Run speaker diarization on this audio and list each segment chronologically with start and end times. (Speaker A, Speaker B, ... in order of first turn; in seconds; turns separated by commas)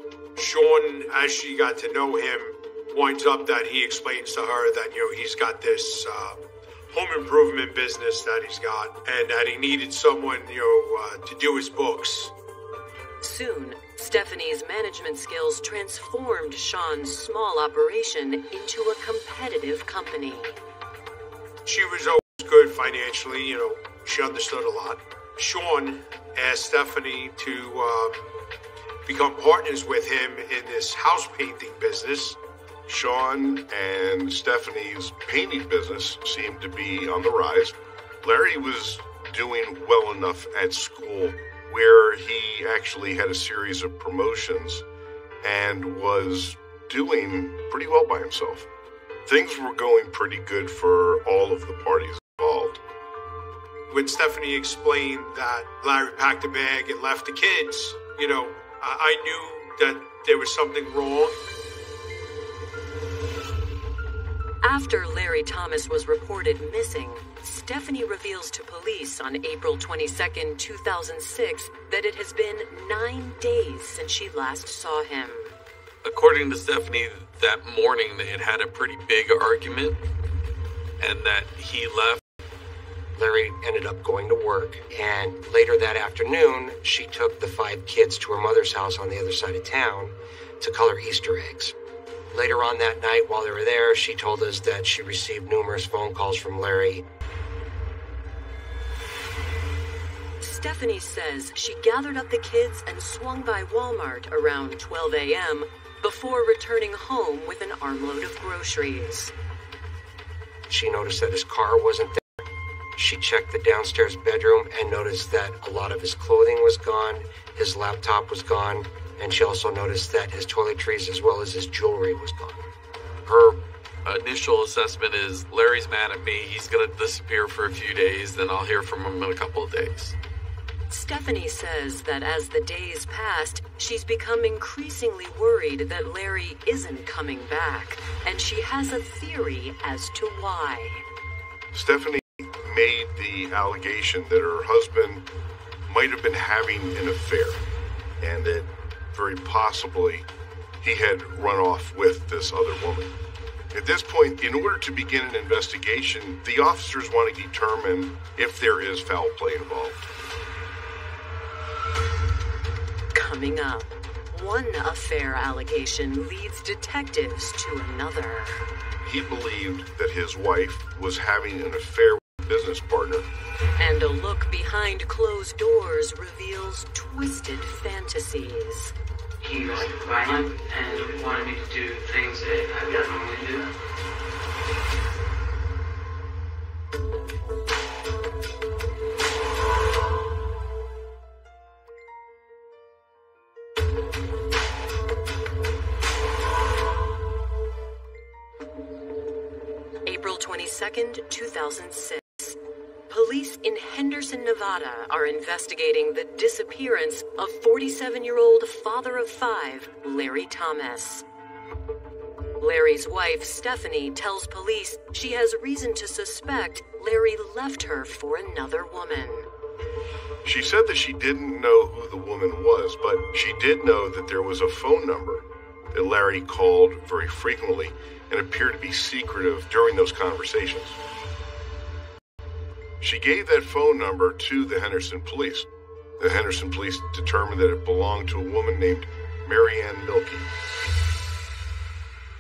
Speaker A: 0.4-6.4, Speaker A: 6.9-12.3, Speaker B: 13.2-20.6, Speaker A: 21.7-28.2, Speaker A: 29.1-32.4, Speaker C: 32.9-44.8, Speaker C: 45.4-48.7, Speaker C: 49.3-52.8, Speaker A: 53.9-61.4, Speaker B: 64.6-75.5, Speaker D: 76.0-80.0, Speaker D: 81.0-82.2, Speaker E: 83.2-91.8, Speaker E: 92.3-97.1, Speaker B: 100.4-109.3, Speaker E: 110.7-122.6, Speaker D: 123.3-130.2, Speaker B: 130.9-141.0, Speaker C: 141.7-145.3, Speaker C: 145.9-147.6, Speaker C: 148.2-150.3, Speaker C: 150.8-153.2, Speaker C: 153.7-160.1, Speaker B: 163.1-168.6, Speaker C: 169.0-173.3, Speaker B: 173.8-178.9, Speaker F: 179.4-183.7, Speaker B: 200.1-211.2, Speaker B: 212.6-219.5, Speaker C: 220.4-231.0, Speaker C: 233.0-235.7, Speaker C: 236.2-240.5